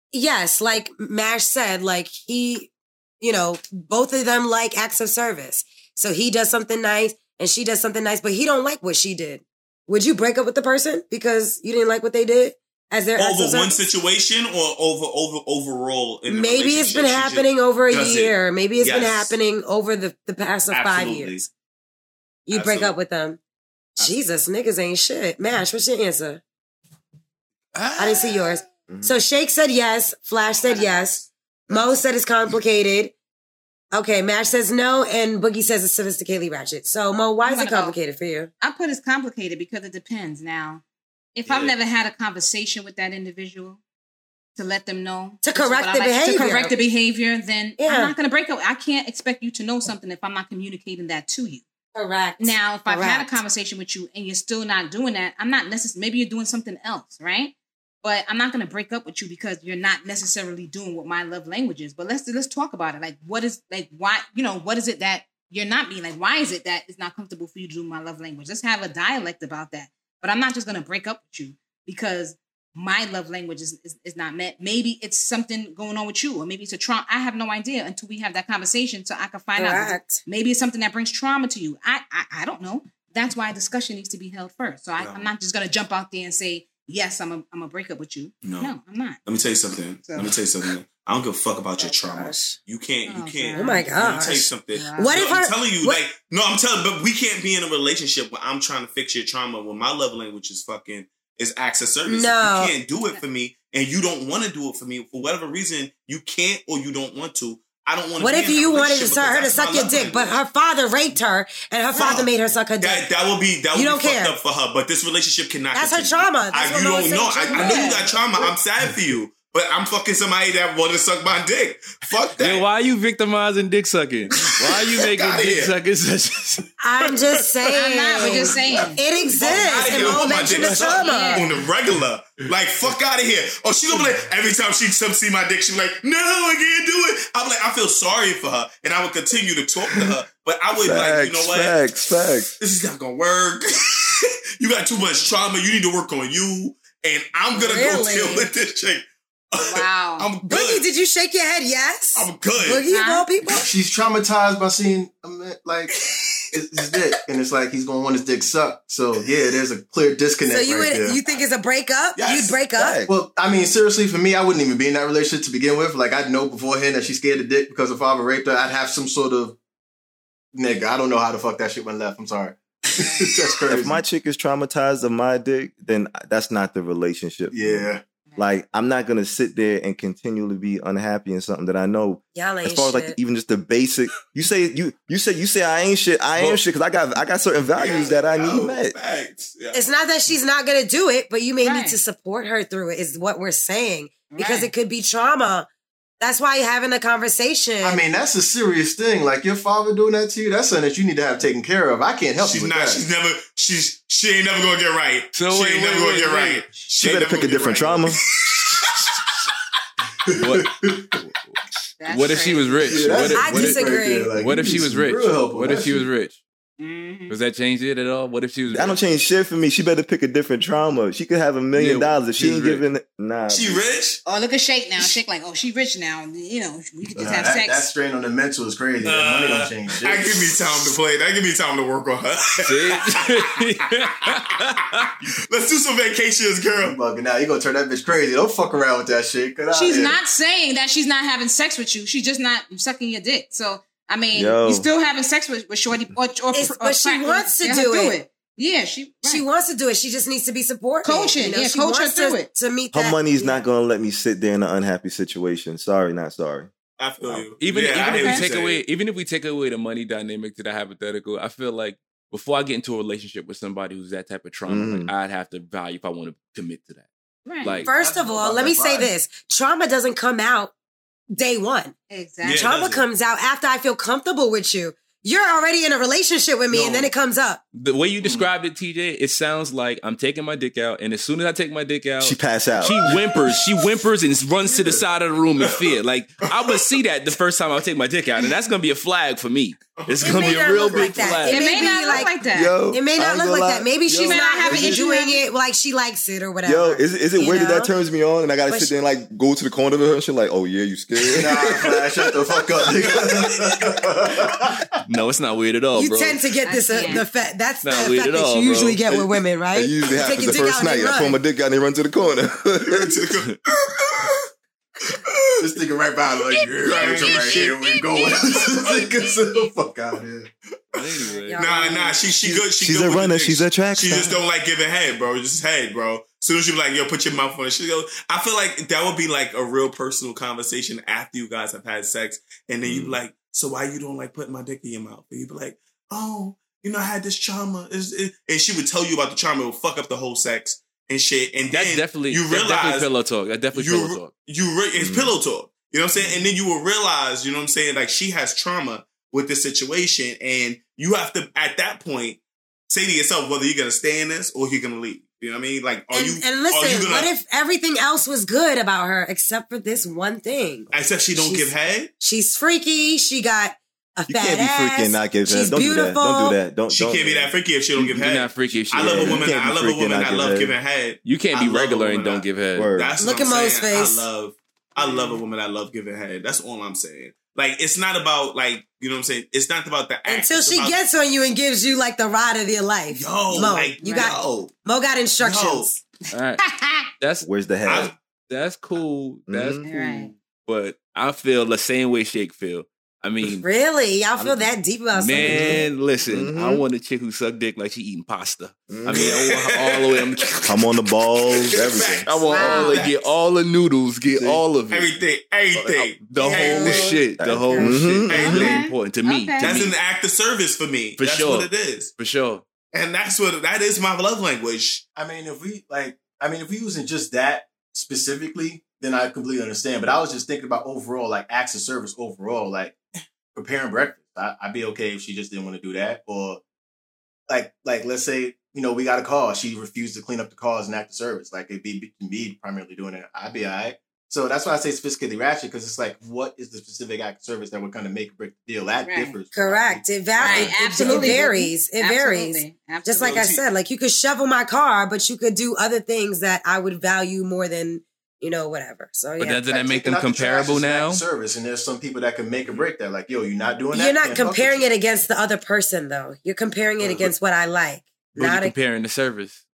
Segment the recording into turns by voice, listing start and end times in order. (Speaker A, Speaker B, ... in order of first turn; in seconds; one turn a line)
Speaker A: 0.1-13.8
Speaker B: 13.2-19.3
Speaker A: 16.3-21.4
Speaker B: 20.7-21.5
Speaker A: 22.5-23.4
Speaker B: 22.5-23.0
Speaker A: 24.0-26.4
Speaker B: 27.8-28.4
Speaker A: 28.0-33.1
Speaker C: 28.9-29.1
Speaker D: 30.6-31.2
Speaker A: 33.9-38.5
Speaker D: 37.5-38.0
Speaker D: 38.6-40.8
Speaker D: 41.4-43.8
Speaker B: 41.5-41.7
Speaker D: 44.6-51.6
Speaker A: 45.4-46.7
Speaker A: 47.8-48.1
Speaker A: 52.0-53.4
Speaker D: 52.4-89.2
Speaker A: 79.6-80.2
Speaker B: 85.0-85.3
Speaker B: 88.4-88.7
Speaker B: 89.3-110.4
Speaker D: 90.1-90.4
Speaker A: 91.8-92.6
Speaker D: 93.1-93.9
Speaker A: 93.6-96.0
Speaker D: 94.8-95.2
Speaker A: 102.1-102.7
Speaker A: 108.2-113.0
Speaker B: 111.9-112.3
Speaker B: 112.8-122.7
Speaker A: 113.7-114.3
Speaker A: 115.7-117.9
Speaker D: 117.5-118.1
Speaker E: 122.4-126.7
Speaker B: 124.4-125.7
Speaker A: 126.8-131.4
Speaker D: 127.8-129.0
Speaker B: 128.2-141.8
Speaker D: 129.8-130.2
Speaker E: 130.5-130.8
Speaker D: 130.8-131.5
Speaker C: 140.8-142.5
Speaker B: 142.6-150.9
Speaker A: 147.5-148.5
Speaker D: 149.7-150.3
Speaker A: 150.4-153.7
Speaker B: 152.2-152.8
Speaker D: 152.9-153.3
Speaker F: 153.6-155.9
Speaker B: 156.0-156.5
Speaker F: 156.5-161.2
Speaker A: 160.5-163.0
Speaker B: 162.2-162.6
Speaker C: 162.8-163.1
Speaker F: 163.1-169.6
Speaker F: 170.5-174.0
Speaker C: 173.7-188.9
Speaker F: 177.5-178.0
Speaker D: 178.3-178.5
Speaker A: 182.3-183.2
Speaker B: 187.7-189.8
Speaker A: 189.7-195.7
Speaker D: 191.6-192.0
Speaker D: 194.3-194.7
Speaker A: 196.2-198.0
Speaker F: 197.8-203.0
Speaker B: 202.4-209.1
Speaker E: 205.3-206.6
Speaker C: 207.0-208.2
Speaker F: 207.7-208.1
Speaker F: 210.2-211.2
Speaker E: 210.4-216.4
Speaker D: 212.0-213.0
Speaker F: 212.8-216.1
Speaker A: 213.3-214.3
Speaker D: 216.8-217.3
Speaker E: 217.3-219.0
Speaker C: 218.7-223.8
Speaker E: 221.7-222.8
Speaker B: 223.5-224.2
Speaker D: 224.3-227.9
Speaker F: 227.2-230.7
Speaker E: 229.0-229.8
Speaker B: 230.0-233.7
Speaker E: 232.7-235.3
Speaker B: 235.5-237.0
Speaker F: 236.7-240.2
Speaker D: 239.7-249.4
Speaker C: 244.3-244.9
Speaker A: 246.5-248.2
Speaker A: 249.2-253.6
Speaker D: 251.0-252.5
Speaker C: 252.9-256.7
Speaker B: 257.0-258.8
Speaker C: 257.2-257.5
Speaker E: 257.6-267.1
Speaker D: 258.1-258.5
Speaker C: 264.7-265.1
Speaker D: 267.4-267.8
Speaker E: 267.6-267.9
Speaker F: 267.8-269.1
Speaker A: 267.9-270.7
Speaker A: 271.3-271.9
Speaker D: 272.1-272.7
Speaker B: 272.4-273.1
Speaker A: 272.5-277.6
Speaker B: 276.7-277.1
Speaker E: 277.7-291.9
Speaker C: 282.2-283.2
Speaker B: 283.4-283.8
Speaker B: 285.6-286.0
Speaker B: 290.0-291.5
Speaker A: 290.2-292.3
Speaker D: 291.5-292.8
Speaker C: 292.5-295.0
Speaker A: 292.9-297.9
Speaker D: 294.1-295.4
Speaker C: 296.6-303.5
Speaker F: 301.3-305.0
Speaker E: 305.1-306.5
Speaker A: 305.9-311.4
Speaker D: 306.6-307.3
Speaker E: 307.8-309.0
Speaker C: 309.8-313.1
Speaker B: 312.9-314.5
Speaker B: 315.1-315.7
Speaker F: 315.6-320.5
Speaker B: 316.7-319.1
Speaker D: 316.8-318.4
Speaker E: 317.0-317.7
Speaker E: 320.9-321.7
Speaker A: 321.5-322.2
Speaker B: 321.6-343.1
Speaker C: 322.4-324.4
Speaker C: 332.8-333.2
Speaker E: 341.7-344.3
Speaker B: 343.7-357.3
Speaker C: 345.0-345.3
Speaker A: 356.1-366.6
Speaker B: 360.9-362.1
Speaker C: 364.3-367.5
Speaker B: 366.9-381.0
Speaker E: 368.0-369.5
Speaker C: 368.9-370.7
Speaker E: 371.2-372.9
Speaker C: 372.7-373.2
Speaker A: 373.2-374.3
Speaker D: 375.0-375.4
Speaker A: 380.3-386.0
Speaker B: 383.1-384.7
Speaker D: 384.0-384.4
Speaker B: 385.4-385.9
Speaker E: 386.3-386.6
Speaker D: 386.6-387.1
Speaker E: 387.2-393.7
Speaker C: 387.4-388.1
Speaker B: 387.9-388.1
Speaker C: 389.5-389.9
Speaker D: 389.8-390.3
Speaker A: 393.6-395.8
Speaker C: 394.4-394.7
Speaker E: 395.2-400.8
Speaker C: 395.3-396.9
Speaker C: 398.9-399.3
Speaker B: 399.1-400.3
Speaker C: 400.6-402.4
Speaker B: 401.7-403.3
Speaker E: 402.2-405.2
Speaker D: 402.5-403.1
Speaker C: 404.3-404.6
Speaker B: 404.9-407.2
Speaker E: 405.9-409.9
Speaker A: 406.5-407.1
Speaker C: 407.4-408.7
Speaker A: 407.7-408.0
Speaker B: 408.3-408.8
Speaker D: 408.4-409.8
Speaker B: 409.6-412.1
Speaker E: 411.2-412.6
Speaker B: 412.9-415.0
Speaker F: 415.2-423.0
Speaker F: 423.5-426.6
Speaker F: 427.5-441.4
Speaker D: 439.0-439.4
Speaker A: 439.5-449.7
Speaker D: 440.4-443.3
Speaker B: 443.2-443.6
Speaker E: 449.4-451.2
Speaker F: 449.7-454.9
Speaker A: 453.9-458.7
Speaker E: 458.4-459.6